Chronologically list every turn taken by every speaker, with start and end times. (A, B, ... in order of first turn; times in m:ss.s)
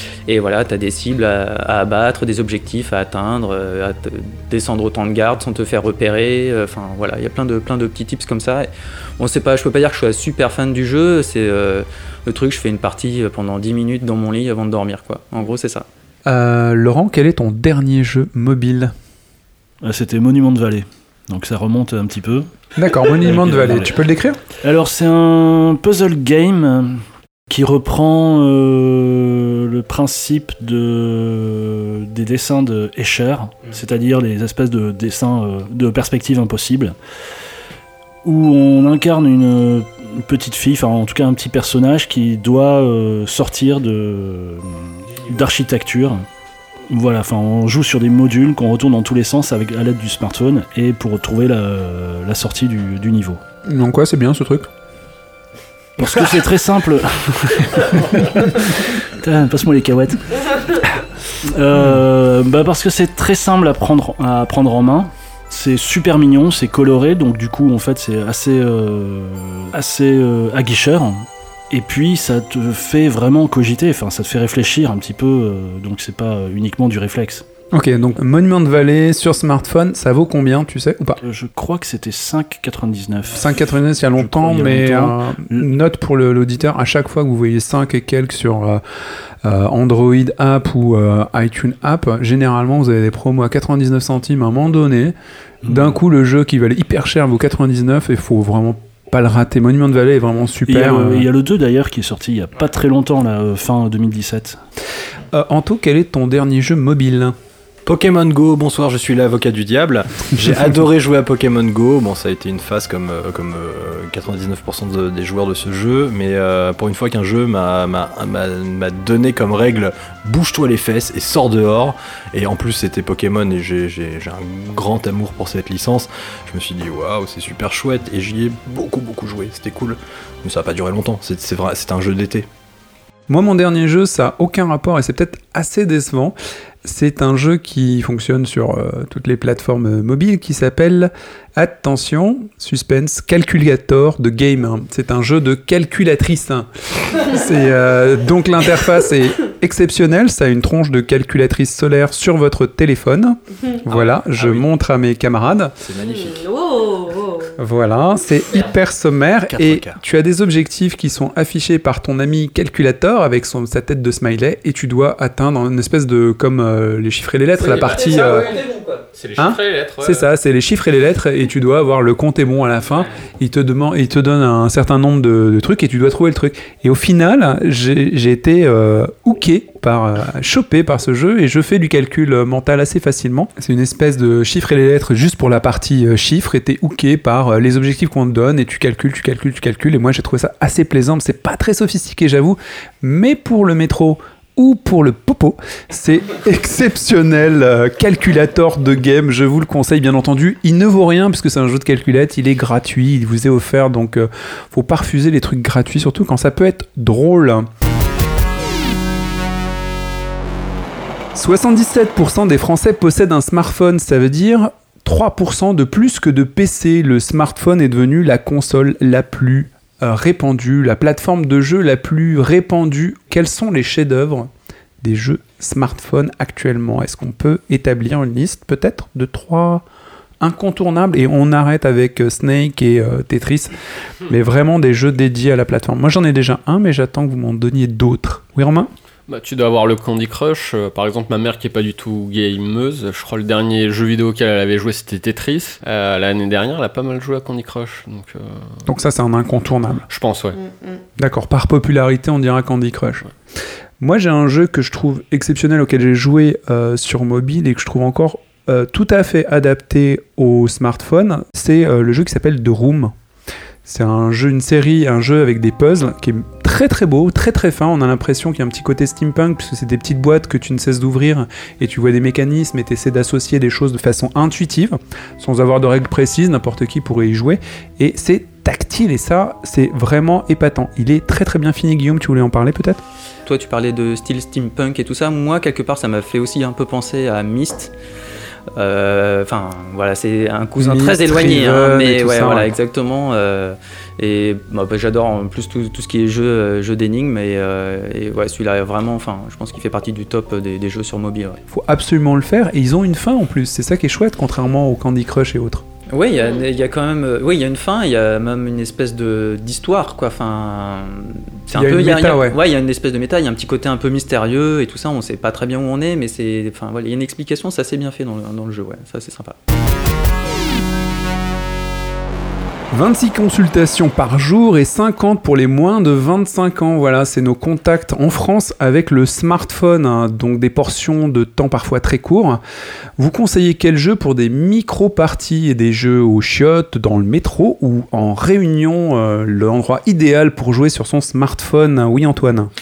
0:00.3-0:08.7 A
0:09.2-0:15.9 A
0:16.2-0:18.9 B
0:19.8-0:22.5 C
0:22.8-0:24.4 B
0:23.2-0:23.9 C
0:24.6-0:37.0 C
0:38.2-0:46.2 C
0:46.9-0:53.4 C
0:53.6-0:54.7 B
0:56.0-1:00.8 C
1:01.4-1:17.4 C
1:17.7-1:21.2 B
1:21.2-1:23.6 C
1:23.3-1:28.8 B
1:24.2-1:25.7 C
1:29.4-1:35.1 B
1:35.6-1:35.9 C
1:35.6-1:41.3 B
1:40.7-1:44.6 C
1:45.3-1:47.4 B
1:47.8-2:12.5 D
2:13.3-2:35.7 B
2:33.9-2:34.6 D
2:35.8-2:36.4 D
2:36.0-2:37.5 E
2:37.6-2:48.6 B
2:39.5-2:40.0 D
2:47.6-2:50.3 F
2:49.4-3:27.7 B
3:31.3-3:44.5 B
3:45.0-3:49.8 B
3:50.4-3:58.9 B
3:59.3-4:08.8 F
4:08.9-4:10.0 B
4:10.1-4:10.6 F
4:10.5-4:11.0 E
4:11.2-4:13.2 B
4:14.0-4:23.1 B
4:23.8-4:43.0 B
4:43.4-4:47.9 A
4:48.8-5:01.6 A
4:50.8-4:52.7 B
5:01.7-5:05.8 B
5:06.1-5:19.6 A
5:11.7-5:12.6 B
5:22.9-5:32.6 B
5:33.2-5:42.7 B